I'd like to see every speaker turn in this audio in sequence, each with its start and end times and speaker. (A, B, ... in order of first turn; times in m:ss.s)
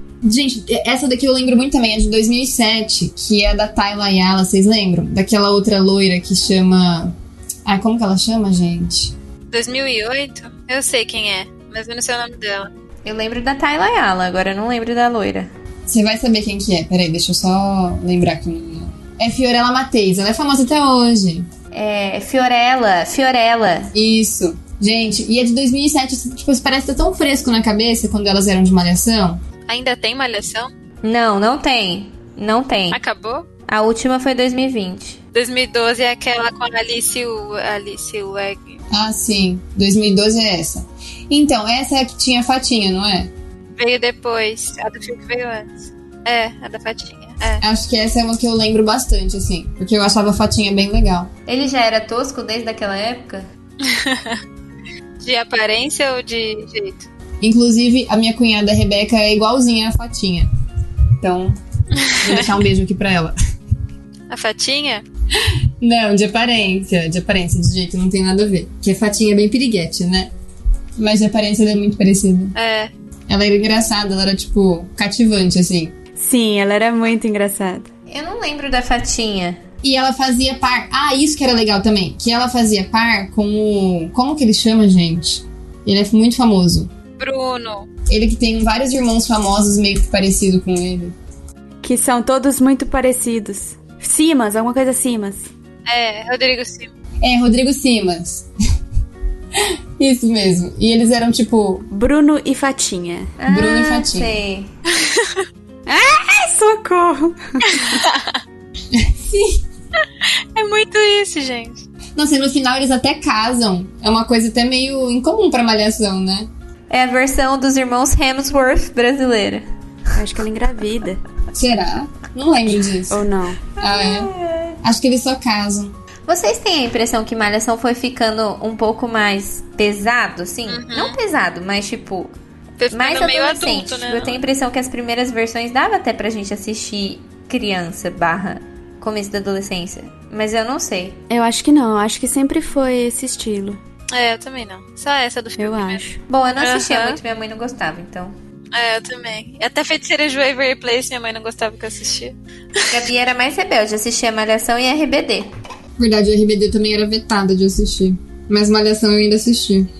0:00.2-0:07.1 A
0:07.6-0:09.1 A
0:09.5-0:12.7 B
0:13.0-0:15.5 C
0:15.9-0:21.5 A
0:21.7-0:23.9 C
0:23.9-0:29.4 A
0:29.7-0:30.7 B
0:31.0-0:33.0 C
0:32.9-0:33.4 B
0:33.7-0:35.2 C
0:35.3-0:38.8 B
0:38.9-0:43.3 A
0:43.8-0:47.6 B
0:47.6-0:51.3 A
0:51.5-0:53.5 C
0:53.8-0:54.4 B
0:55.2-0:57.1 B
0:57.4-1:00.5 A
1:01.2-1:01.6 A
1:02.0-1:02.4 B
1:02.1-1:03.3 A
1:04.3-1:05.0 B
1:05.8-1:10.3 A
1:11.0-1:12.5 A
1:12.6-1:12.9 B
1:13.3-1:15.9 A
1:16.2-1:17.9 D
1:18.1-1:19.6 C
1:19.8-1:26.9 A
1:27.2-1:27.9 B
1:28.1-1:31.1 A
1:31.8-1:35.5 D
1:35.9-1:36.9 B
1:37.2-1:38.5 A
1:39.6-1:41.9 A
1:41.9-1:43.3 D
1:43.4-1:44.7 C
1:43.5-1:44.3 A
1:44.9-1:45.4 B
1:45.9-1:48.0 D
1:47.6-1:48.4 B
1:48.9-1:49.6 A
1:50.3-1:51.8 B
1:52.2-1:56.5 A
1:56.9-1:59.6 C
2:00.1-2:01.2 D
2:01.5-2:03.2 A
2:03.1-2:03.7 D
2:03.8-2:06.0 A
2:03.8-2:04.8 C
2:06.3-2:12.3 C
2:10.7-2:11.2 B
2:12.8-2:14.4 B
2:12.9-2:21.2 C
2:21.3-2:23.8 D
2:24.1-2:26.0 B
2:25.6-2:26.2 D
2:26.3-2:28.3 C
2:26.6-2:27.2 B
2:28.7-2:33.0 B
2:32.9-2:35.5 C
2:36.0-2:39.9 A